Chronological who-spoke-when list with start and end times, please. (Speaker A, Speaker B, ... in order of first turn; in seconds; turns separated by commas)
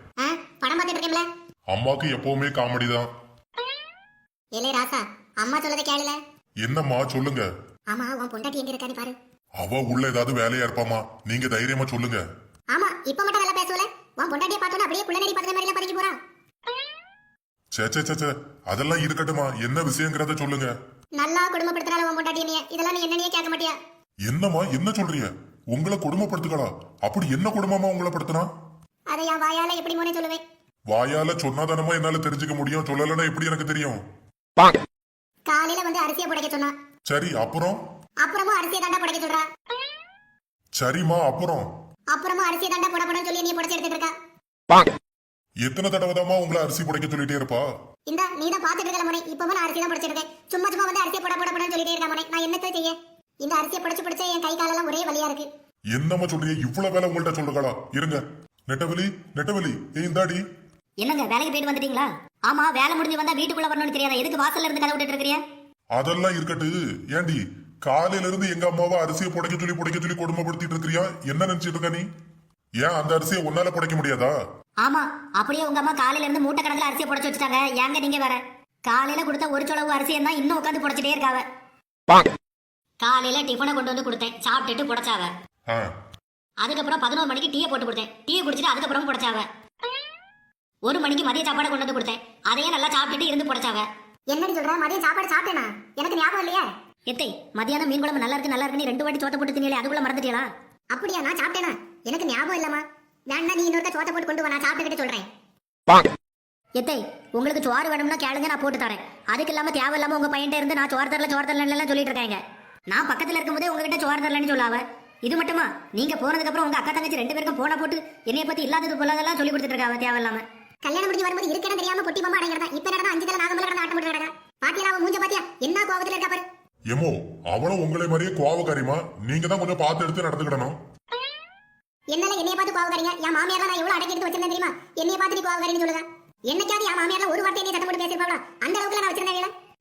Speaker A: 0.2-1.2, Speaker B: 1.7-3.1, Speaker A: 4.6-6.2, Speaker B: 6.6-7.5, Speaker A: 7.9-9.2, Speaker B: 9.6-12.2, Speaker A: 12.7-16.1, Speaker B: 17.7-20.7, Speaker A: 21.2-23.8, Speaker B: 24.2-28.5, Speaker A: 29.1-30.4, Speaker B: 30.9-34.0, Speaker A: 35.5-36.7, Speaker B: 37.1-37.8, Speaker A: 38.2-39.5, Speaker B: 40.8-41.7, Speaker A: 42.1-44.1, Speaker B: 45.6-47.6, Speaker A: 48.1-55.5, Speaker B: 55.9-60.4, Speaker C: 61.0-65.4, Speaker B: 65.9-72.0, Speaker B: 72.8-74.3, Speaker C: 74.8-81.4, Speaker C: 83.0-85.3, Speaker C: 86.6-89.5, Speaker C: 90.8-93.9, Speaker A: 94.3-96.7, Speaker C: 97.1-100.5, Speaker A: 100.9-105.3, Speaker C: 106.8-120.4, Speaker A: 120.8-126.4, Speaker B: 126.9-130.8, Speaker A: 132.1-139.5